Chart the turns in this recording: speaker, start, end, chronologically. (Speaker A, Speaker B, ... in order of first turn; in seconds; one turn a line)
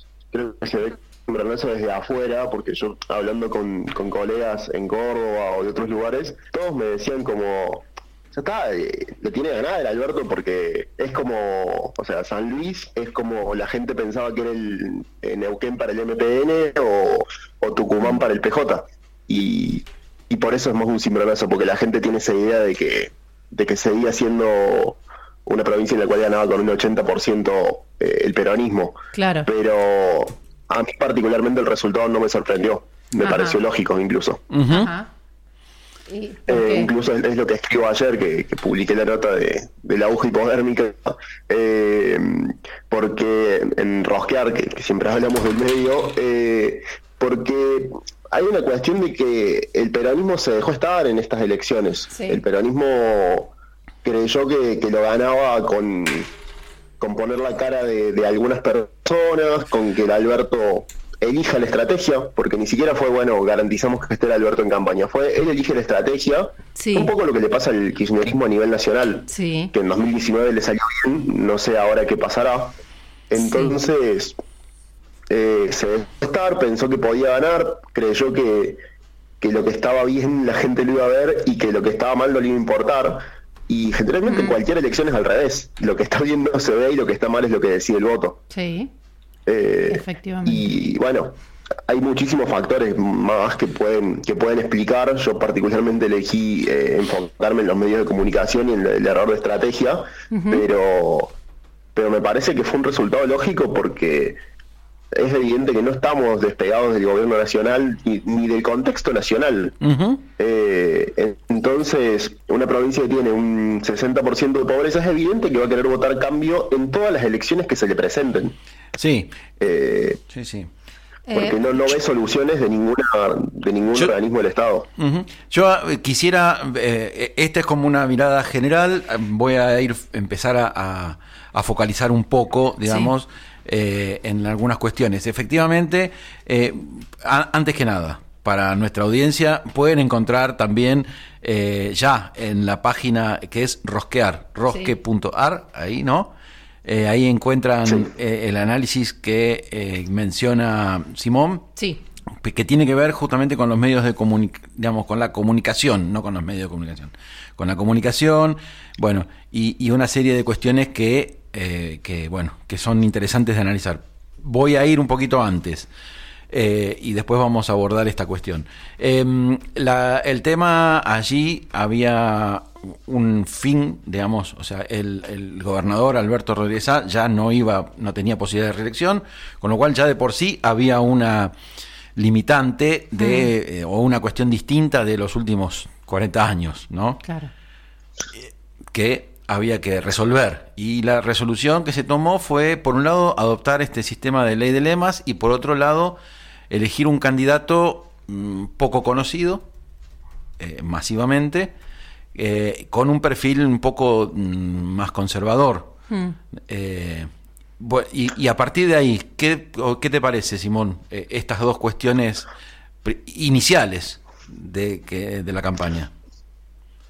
Speaker A: 0.3-34.4
Speaker B: 29.1-29.5
Speaker B: 33.2-33.6
Speaker C: 34.5-34.9
Speaker B: 34.7-35.1
Speaker B: 36.1-36.9
Speaker A: 36.5-53.5
Speaker B: 52.1-52.4
Speaker A: 54.0-56.3
Speaker A: 57.0-72.8
Speaker B: 66.7-67.1
Speaker B: 69.3-69.7
Speaker A: 73.3-74.4
Speaker B: 73.3-73.8
Speaker A: 75.3-78.8
Speaker A: 79.4-88.4
Speaker B: 84.2-84.6
Speaker B: 88.5-88.9
Speaker A: 89.5-91.4
Speaker B: 89.9-90.7
Speaker A: 91.9-101.3
Speaker B: 100.3-100.6
Speaker A: 101.9-104.4
Speaker A: 105.1-109.8
Speaker C: 109.8-110.2
Speaker A: 110.4-118.6
Speaker C: 119.0-119.4
Speaker A: 119.6-120.2
Speaker C: 120.3-120.7
Speaker B: 121.2-121.9
Speaker A: 121.3-124.9
Speaker C: 125.0-146.3
Speaker B: 132.8-133.1
Speaker B: 144.7-144.9
Speaker C: 146.8-151.7
Speaker B: 151.8-152.0
Speaker C: 152.4-165.9
Speaker C: 166.5-181.5
Speaker C: 182.2-187.2
Speaker B: 183.2-183.5
Speaker B: 187.2-187.5
Speaker C: 188.9-196.2
Speaker C: 196.7-199.6
Speaker C: 200.6-201.7
Speaker C: 202.3-205.9
Speaker B: 206.1-206.3
Speaker C: 206.7-212.5
Speaker C: 213.0-216.1